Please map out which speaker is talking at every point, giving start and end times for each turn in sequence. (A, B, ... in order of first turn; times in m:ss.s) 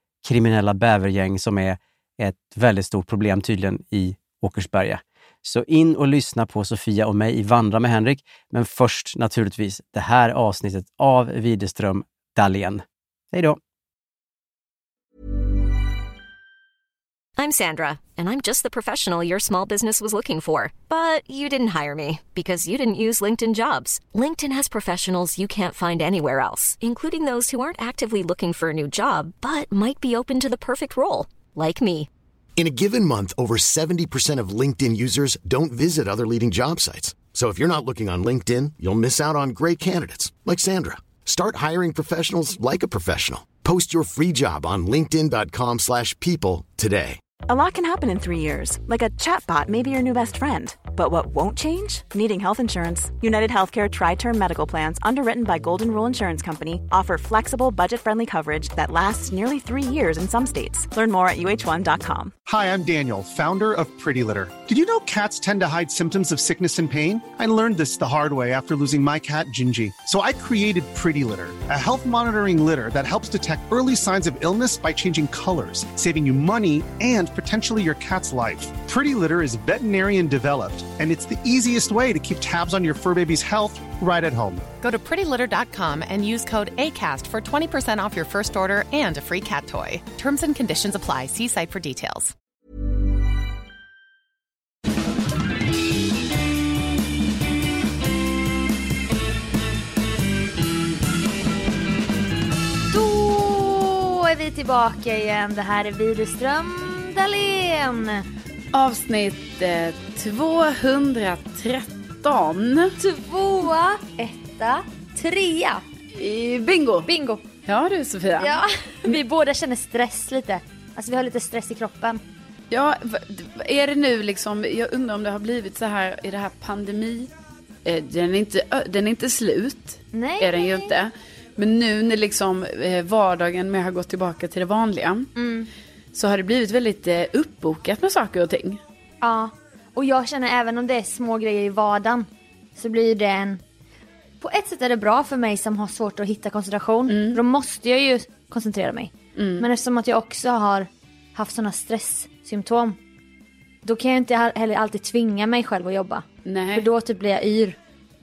0:00.2-0:13.6 A
0:17.4-0:32.1 B
0:32.6-0:47.3 C
0:47.4-1:02.3 D
1:02.4-1:24.7 E
1:24.8-1:32.3 F
1:42.9-1:48.2 G
1:48.7-1:53.0 H
1:53.0-1:55.8 G
1:56.1-1:57.1 H
1:57.1-1:57.4 G
1:57.6-1:59.1 H
1:58.4-2:02.2 G
2:02.7-2:07.3 H
2:07.8-2:15.3 H
2:10.1-2:10.9 G
2:15.4-2:15.7 G
2:16.1-2:18.8 H
2:19.2-2:23.6 G
2:24.4-2:33.0 G
2:27.1-2:27.4 H
2:29.4-2:29.6 H
2:33.8-2:37.8 G
2:36.4-2:36.9 H